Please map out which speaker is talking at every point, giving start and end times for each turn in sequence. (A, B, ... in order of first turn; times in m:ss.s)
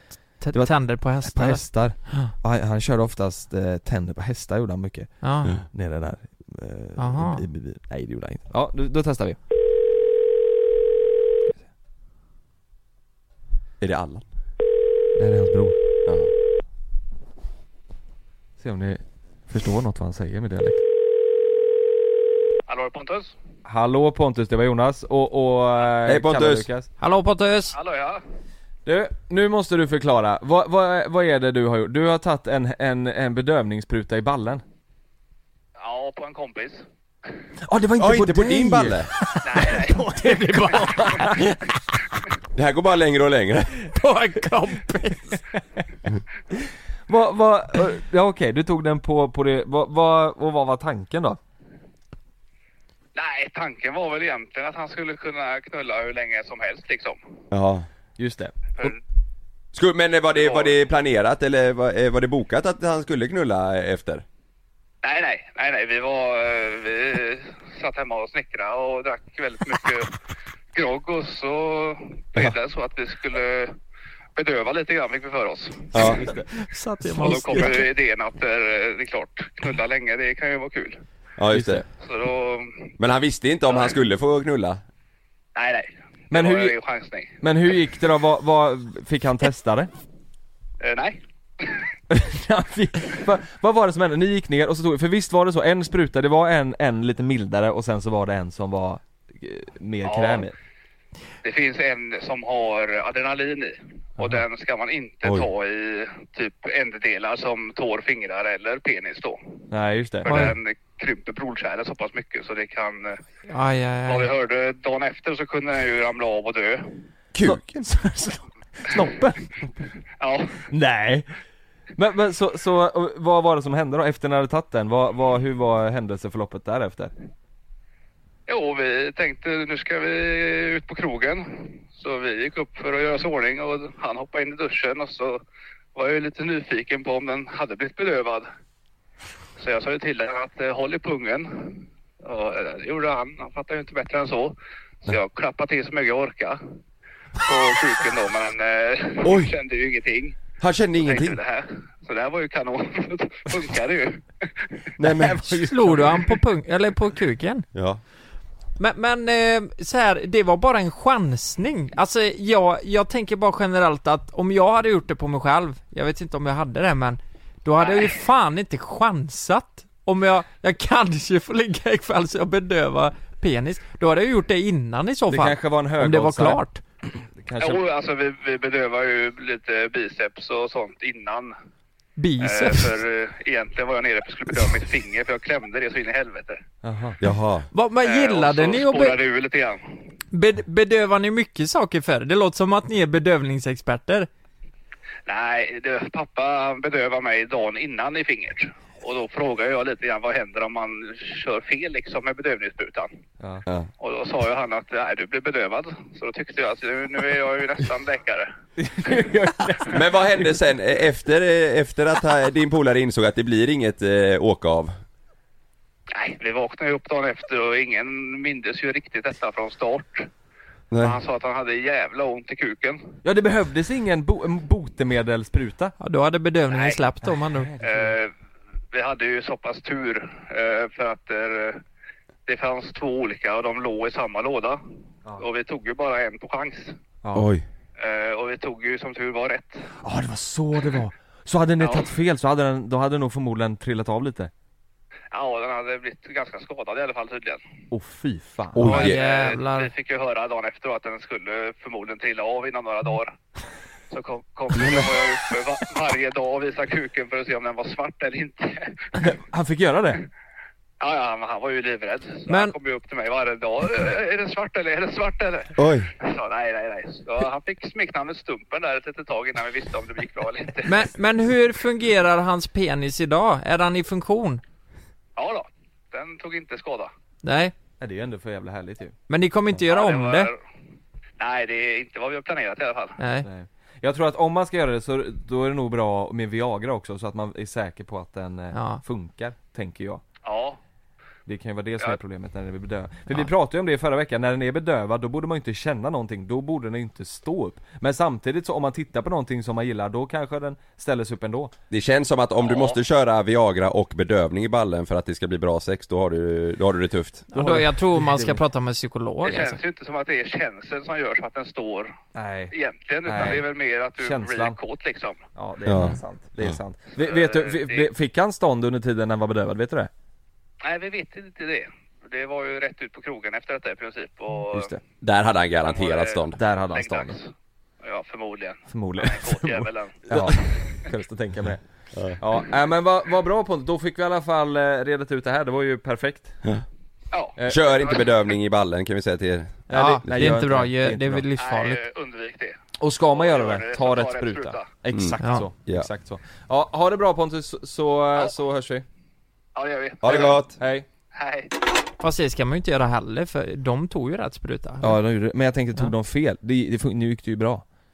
0:00.4-0:02.3 A
0:01.2-0:09.4 B
0:05.2-0:05.5 A
0:07.0-0:07.4 A
0:13.8-0:14.2 C
0:15.1-0:15.8 B
0:16.0-0:16.3 C
0:18.6-0:20.8 B
0:22.7-0:23.3 D
0:23.6-0:26.9 B
0:26.0-0:26.7 C
0:27.0-0:27.8 A
0:27.7-0:28.2 D
0:28.8-0:34.6 B
0:35.8-0:36.8 D
0:37.6-0:41.7 B
0:38.0-0:39.1 C
0:39.4-0:40.0 D
0:39.7-0:41.3 A
0:42.5-0:43.9 C
0:43.8-0:45.4 A
0:47.1-0:51.4 B
0:53.1-0:57.2 D
0:57.5-0:57.8 C
0:58.2-0:58.9 B
0:59.7-1:04.2 C
1:00.4-1:00.7 D
1:05.0-1:10.2 D
1:10.7-1:13.7 D
1:14.4-1:15.9 D
1:15.9-1:16.2 C
1:16.0-1:16.5 B
1:16.4-1:17.9 A
1:17.1-1:21.0 D
1:21.4-1:21.8 C
1:21.5-1:21.8 B
1:22.0-1:22.9 D
1:23.0-1:24.8 C
1:25.5-1:27.3 D
1:26.3-1:26.8 B
1:27.4-1:29.9 B
1:30.8-1:31.8 D
1:32.1-1:40.5 B
1:40.0-1:40.5 D
1:41.4-1:49.4 D
1:49.7-1:50.5 B
1:50.2-1:53.2 D
1:50.2-1:50.6 A
1:53.5-1:54.3 A
1:54.0-1:56.9 D
1:57.3-1:57.8 C
1:57.4-1:59.7 B
2:00.2-2:00.6 D
2:00.7-2:01.3 B
2:01.9-2:07.1 B
2:08.5-2:15.4 D
2:15.9-2:18.5 D
2:19.6-2:26.6 D
2:27.4-2:30.4 D
2:29.2-2:29.5 C
2:30.6-2:31.4 C
2:31.0-2:34.8 D
2:35.0-2:36.1 C
2:35.3-2:35.9 B
2:35.4-2:37.7 A
2:37.7-2:38.0 C
2:38.8-2:56.8 A
2:47.8-2:48.1 D
2:55.3-2:56.6 B
2:57.4-2:57.8 B
2:57.6-3:01.5 D
3:02.2-3:03.0 A
3:02.4-3:06.6 D
3:06.8-3:07.2 B
3:07.2-3:07.7 C
3:07.7-3:09.2 A
3:08.0-3:09.8 D
3:10.3-3:14.3 A
3:15.2-3:23.1 D
3:23.4-3:23.6 B
3:24.0-3:28.5 D
3:28.8-3:30.1 B
3:29.9-3:34.9 C
3:36.1-3:40.3 D
3:40.9-3:41.2 C
3:41.0-3:43.0 D
3:43.2-3:45.9 B
3:46.0-3:47.7 A
3:46.7-3:47.0 D
3:47.5-3:48.2 B
3:47.8-3:48.3 D
3:48.9-3:51.8 D
3:52.4-3:54.8 D
3:55.4-3:57.0 D
3:57.2-3:57.5 B
3:57.3-3:57.6 C
3:58.0-3:59.9 D
4:00.0-4:04.5 B
4:01.8-4:02.1 D
4:05.3-4:07.6 D
4:07.9-4:09.1 B
4:08.7-4:09.2 C
4:08.8-4:09.9 A
4:08.9-4:13.3 D
4:14.1-4:19.3 D
4:14.7-4:15.1 C
4:19.2-4:20.2 B
4:21.0-4:31.0 D
4:22.5-4:22.7 A
4:25.8-4:26.1 C
4:30.8-4:34.6 A
4:35.4-4:37.1 D
4:37.4-4:37.7 A
4:38.0-4:39.1 B
4:39.3-4:40.5 A
4:39.9-4:40.6 D
4:41.4-4:43.2 D
4:43.2-4:43.5 A
4:43.4-4:50.2 B
4:48.7-4:49.0 A
4:50.4-4:50.8 D
4:51.5-5:01.7 B
5:01.9-5:07.4 C
5:02.6-5:03.0 D
5:07.5-5:09.8 A
5:07.5-5:08.6 B
5:09.4-5:12.1 D
5:12.3-5:14.8 B
5:12.7-5:15.4 D
5:15.6-5:20.1 B
5:15.8-5:16.8 C
5:17.2-5:18.1 D
5:20.8-5:24.9 D
5:24.7-5:25.0 B
5:25.2-5:26.6 C
5:25.8-5:27.5 D
5:26.6-5:27.4 B
5:28.0-5:31.1 D
5:28.9-5:36.6 B
5:32.1-5:32.4 C
5:37.3-5:38.3 D
5:37.6-5:40.6 C
5:39.9-5:41.5 B
5:39.9-5:42.0 A
5:41.6-5:44.8 D
5:43.0-5:49.0 B
5:45.1-5:46.1 C
5:45.4-5:45.7 A
5:49.7-5:50.6 D
5:50.2-5:50.8 C
5:50.8-5:51.1 B
5:51.3-5:51.7 D
5:52.2-5:55.2 A
5:55.0-5:57.8 B